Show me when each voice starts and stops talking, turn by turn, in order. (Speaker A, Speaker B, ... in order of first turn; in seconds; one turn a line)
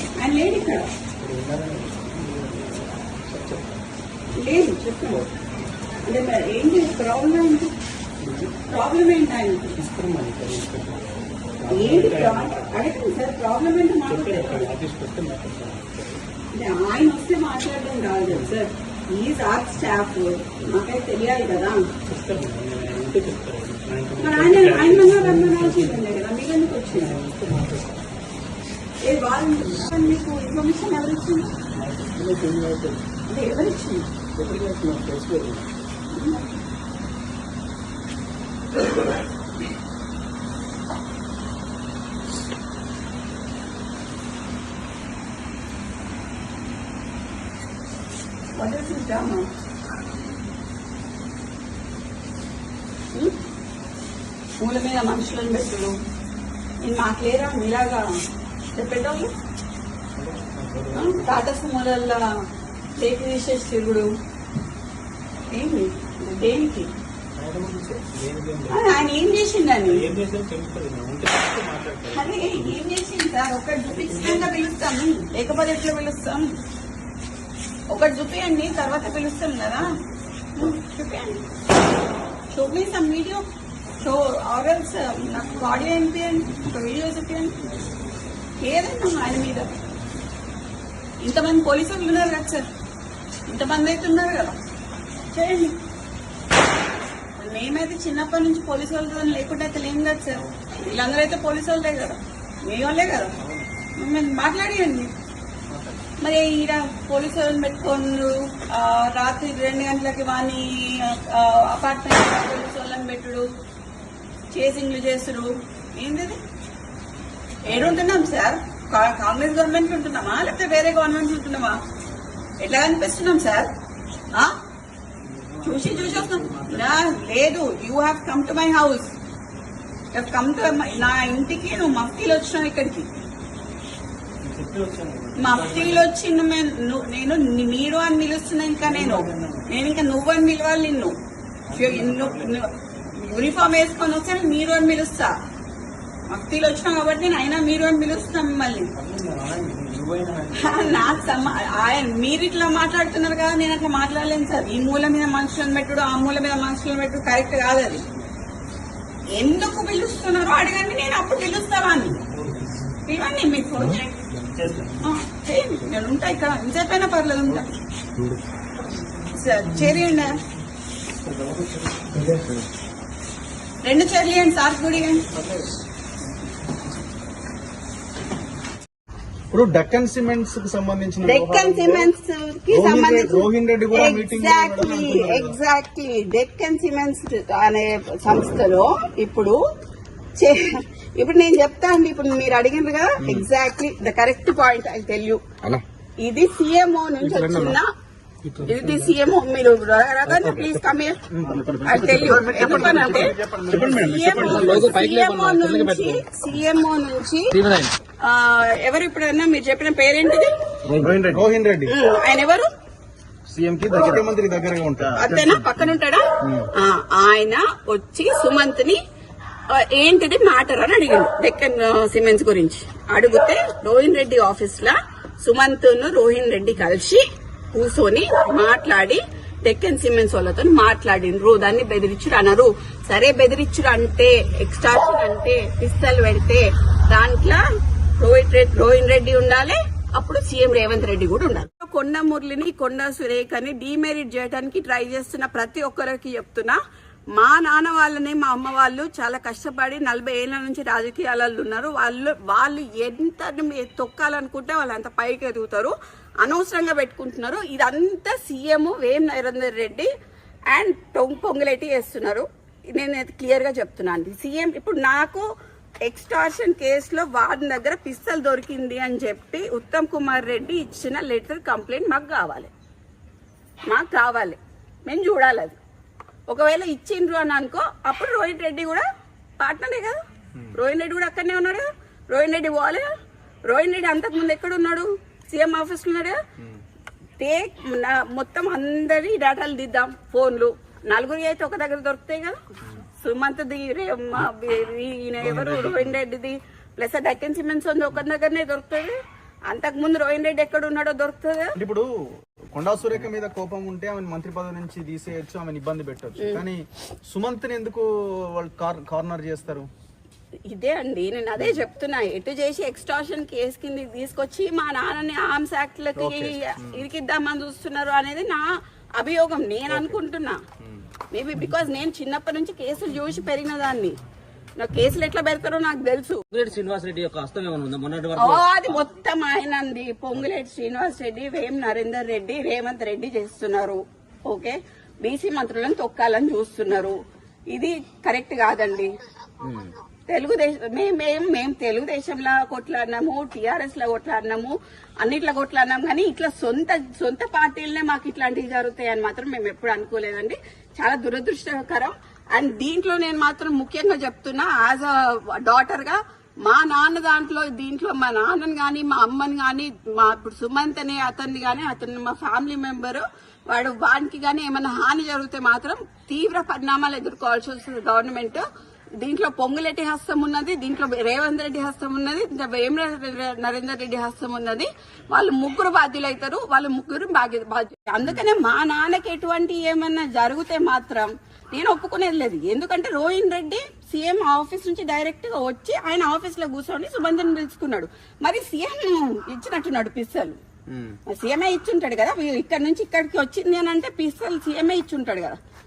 Speaker A: 0.2-0.9
Speaker B: 1.2-4.3
Speaker A: 4.3-5.2
Speaker A: 6.0-7.7
Speaker B: 8.2-8.6
Speaker A: 8.7-9.8
Speaker B: 9.8-12.8
Speaker A: 11.7-14.7
Speaker B: 14.1-16.2
Speaker A: 16.5-21.8
Speaker B: 18.3-18.6
Speaker B: 22.1-26.1
Speaker A: 24.2-27.1
Speaker B: 26.9-28.1
Speaker A: 29.0-31.5
Speaker B: 31.7-33.1
Speaker A: 33.3-34.1
Speaker B: 34.3-35.9
Speaker A: 36.1-36.5
Speaker A: 48.6-49.5
Speaker A: 54.6-56.0
Speaker A: 56.8-58.1
Speaker A: 58.7-59.3
Speaker B: 60.1-61.5
Speaker A: 60.9-62.2
Speaker A: 63.0-64.1
Speaker A: 65.5-66.9
Speaker B: 67.4-69.1
Speaker A: 68.7-70.0
Speaker B: 69.8-72.8
Speaker A: 72.1-76.5
Speaker B: 74.0-74.5
Speaker A: 77.9-79.9
Speaker A: 80.6-81.4
Speaker A: 82.5-83.5
Speaker A: 84.0-87.6
Speaker A: 88.6-89.7
Speaker A: 91.2-92.6
Speaker A: 93.5-94.6
Speaker A: 95.3-95.8
Speaker A: 97.4-103.3
Speaker B: 103.4-103.8
Speaker A: 104.0-105.1
Speaker B: 105.7-106.0
Speaker A: 106.2-113.5
Speaker A: 114.5-116.4
Speaker A: 117.7-121.8
Speaker B: 117.7-118.2
Speaker A: 122.6-123.7
Speaker B: 125.2-127.2
Speaker A: 125.6-129.1
Speaker A: 130.1-133.1
Speaker B: 134.4-136.1
Speaker A: 135.4-141.2
Speaker B: 138.8-139.7
Speaker B: 141.7-142.6
Speaker A: 141.7-145.3
Speaker A: 146.3-148.9
Speaker B: 149.0-151.6
Speaker A: 150.6-158.0
Speaker A: 159.3-162.2
Speaker B: 162.1-162.9
Speaker A: 163.1-164.2
Speaker B: 164.3-165.1
Speaker A: 165.0-167.7
Speaker A: 169.3-170.4
Speaker B: 169.7-170.0
Speaker B: 171.2-172.5
Speaker A: 173.8-175.3
Speaker B: 175.3-175.7
Speaker C: 179.5-182.1
Speaker A: 181.2-189.6
Speaker C: 182.7-185.6
Speaker A: 190.4-195.4
Speaker A: 196.2-197.9
Speaker D: 197.2-197.8
Speaker B: 198.4-199.2
Speaker A: 198.6-201.2
Speaker D: 200.4-200.7
Speaker C: 201.3-204.9
Speaker D: 201.6-202.4
Speaker A: 201.8-207.6
Speaker D: 203.7-206.2
Speaker D: 207.5-207.9
Speaker A: 208.2-210.5
Speaker D: 210.9-211.4
Speaker C: 211.0-211.9
Speaker A: 211.9-212.7
Speaker C: 213.5-215.6
Speaker A: 215.1-219.0
Speaker A: 219.7-237.6
Speaker A: 238.2-246.8
Speaker A: 247.3-260.1
Speaker A: 260.7-265.5
Speaker A: 266.1-272.7
Speaker A: 273.9-275.8
Speaker A: 276.5-279.1
Speaker A: 279.6-280.2
Speaker A: 280.7-283.1
Speaker A: 283.7-286.4
Speaker A: 287.4-292.6
Speaker A: 293.2-299.1
Speaker C: 295.5-296.1
Speaker A: 299.7-301.8
Speaker C: 301.8-302.1
Speaker C: 302.7-309.9
Speaker A: 310.7-318.7
Speaker C: 316.2-317.0
Speaker A: 319.2-320.6
Speaker C: 319.9-320.2
Speaker A: 321.3-324.2
Speaker A: 324.8-326.4
Speaker D: 326.5-329.0
Speaker A: 328.4-337.2
Speaker A: 337.7-339.1
Speaker D: 339.6-339.9
Speaker A: 340.3-368.7
Speaker A: 369.2-390.6
Speaker C: 390.9-391.2
Speaker A: 391.3-395.6